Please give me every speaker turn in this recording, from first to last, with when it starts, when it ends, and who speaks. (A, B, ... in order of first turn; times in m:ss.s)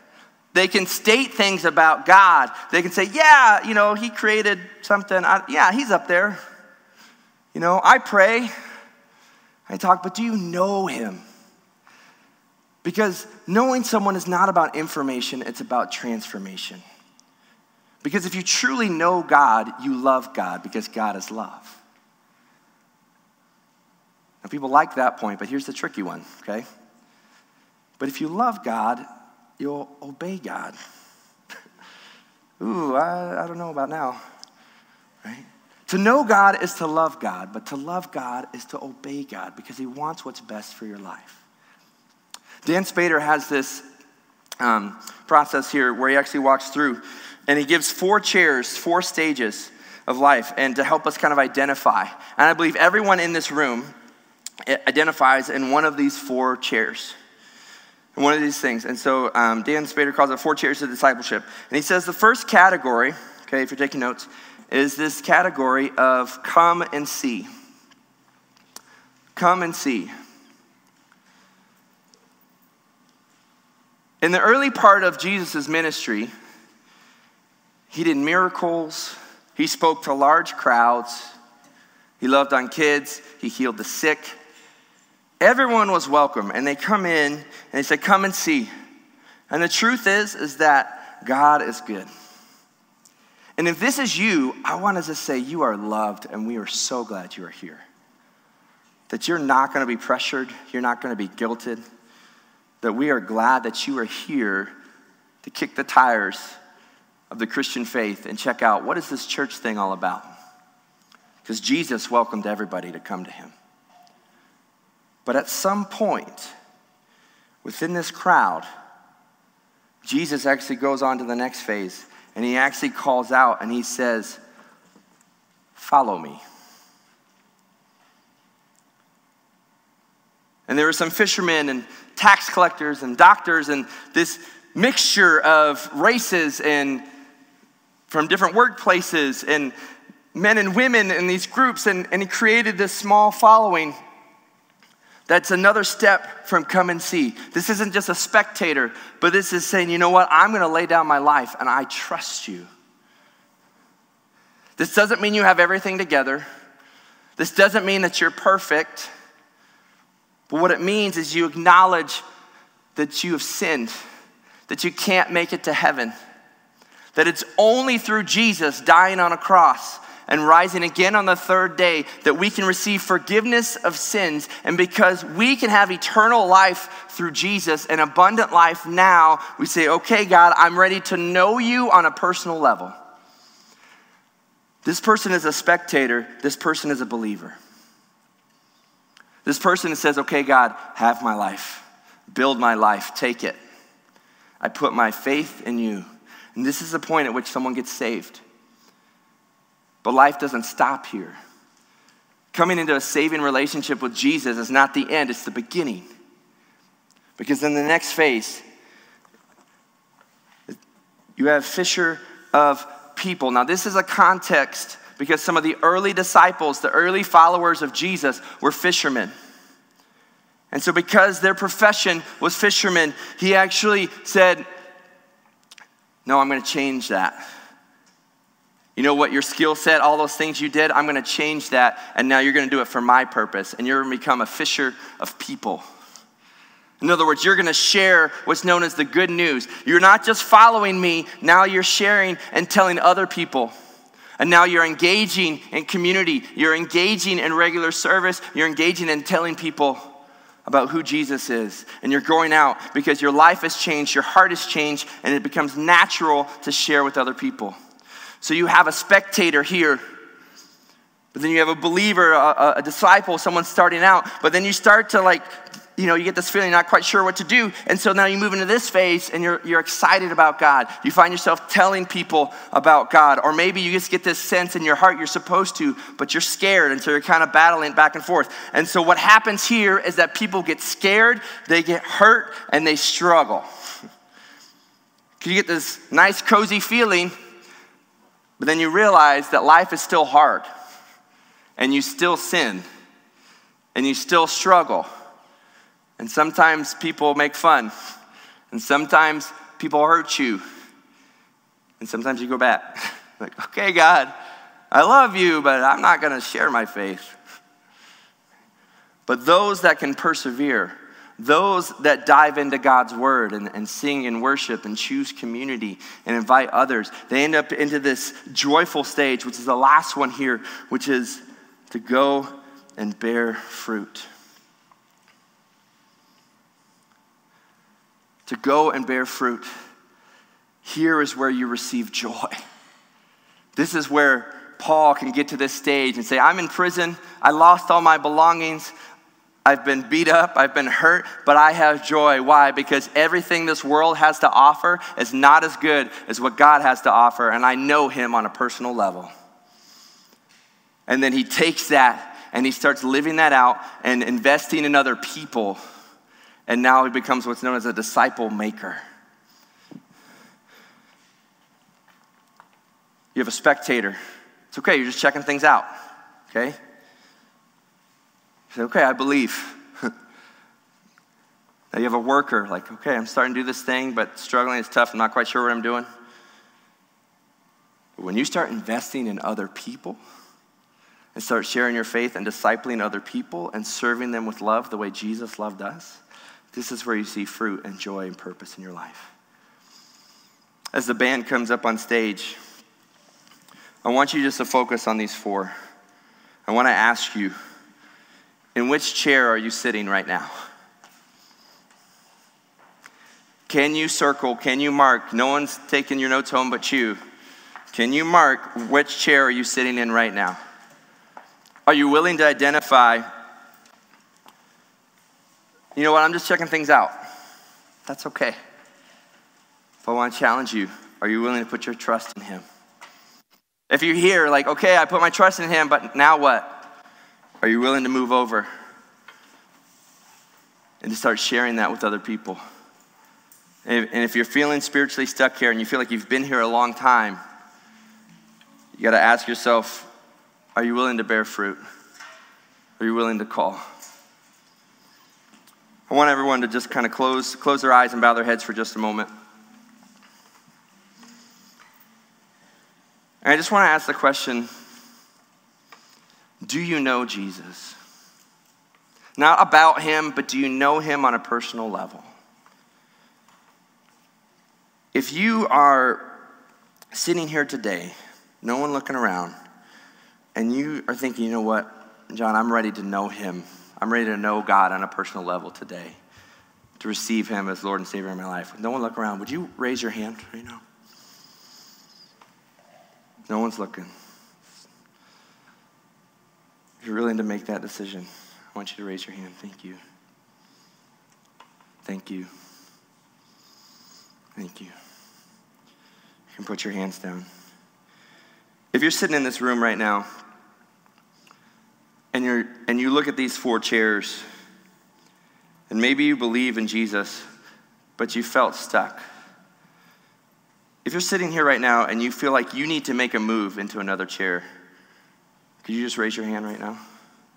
0:00.5-0:06.4 A
0:07.5-0:08.5 A
0:09.7-0:11.2 A
0:12.8-0:16.8 A
0:18.0-0:21.8 A
0:24.4-0:26.6 A
0:28.0-0:29.0 A
0:29.6-0:30.8 A
0:32.6-0:34.2 A
0:35.2-0:41.4 A
0:42.6-0:43.8 A
0:44.6-0:53.9 A
0:54.6-0:57.2 A
0:58.2-1:07.5 A
1:09.4-1:10.1 A
1:14.2-1:16.3 A
1:17.9-1:21.3 A
1:22.2-1:24.4 A
1:25.4-1:28.7 A
1:29.5-1:32.1 A
1:33.6-1:37.8 A
1:39.1-1:41.8 A
1:42.8-1:44.7 A
1:45.4-1:46.6 A
1:47.3-1:50.3 A
1:51.4-1:53.5 A
1:55.3-1:56.5 A
1:57.6-1:58.7 A
2:00.0-2:04.4 A
2:05.8-2:06.4 A
2:10.7-2:17.0 A
2:18.1-2:19.7 A
2:20.3-2:24.0 A
2:25.3-2:32.7 A
2:34.8-2:36.5 A
2:37.4-2:39.1 A
2:40.5-2:42.2 A
2:43.0-2:44.0 A
2:44.7-2:46.1 A
2:47.2-3:02.9 A
3:04.8-3:07.6 A
3:09.4-3:13.6 A
3:14.6-3:18.4 A
3:20.0-3:21.4 A
3:22.5-3:26.1 A
3:27.4-3:28.6 A
3:31.4-3:39.3 A
3:40.7-3:44.7 A
3:46.3-3:47.4 A
3:49.0-3:55.8 A
3:57.0-4:03.7 A
4:04.4-4:10.0 A
4:10.7-4:17.8 A
4:18.4-4:20.0 A
4:21.3-4:43.6 A
4:45.4-4:47.3 A
4:48.6-4:50.7 A
4:51.8-4:52.8 A
4:54.0-4:55.1 A
4:56.2-4:57.9 A
4:58.7-5:00.6 A
5:02.0-5:04.3 A
5:04.9-5:07.3 A
5:09.3-5:24.3 A
5:28.5-5:29.7 A
5:30.8-5:32.6 A
5:33.8-5:38.9 A
5:39.6-5:49.3 A
5:51.1-5:55.8 A
5:56.7-5:59.0 A
6:03.4-6:04.2 A
6:04.7-6:05.9 A
6:06.5-6:06.8 A
6:08.7-6:10.1 A
6:11.9-6:16.1 A
6:18.2-6:20.2 A
6:21.4-6:26.2 A
6:26.7-6:29.3 A
6:30.9-6:32.6 A
6:34.0-6:35.7 A
6:36.7-6:37.5 A
6:38.8-6:40.5 A
6:43.7-6:47.2 A
6:47.9-6:50.6 A
6:51.9-6:53.2 A
6:56.0-6:57.2 A
6:58.1-6:58.6 A
7:00.0-7:02.6 A
7:03.9-7:06.8 A
7:07.6-7:08.7 A
7:11.0-7:12.6 A
7:13.9-7:17.4 A
7:19.0-7:20.1 A
7:20.8-7:21.8 A
7:23.0-7:23.8 A
7:26.1-7:29.3 A
7:33.4-7:34.7 A
7:36.6-7:38.0 A
7:39.4-7:42.3 A
7:45.1-7:46.3 A
7:47.1-7:49.5 A
7:50.6-7:56.2 A
7:57.0-8:00.8 A
8:03.5-8:04.1 A
8:07.0-8:10.0 A
8:12.0-8:12.5 A
8:14.6-8:14.9 A
8:16.5-8:17.5 A
8:18.9-8:20.3 A
8:22.3-8:24.4 A
8:25.9-8:27.4 A
8:28.2-8:29.2 A
8:31.0-8:34.6 A
8:35.8-8:37.0 A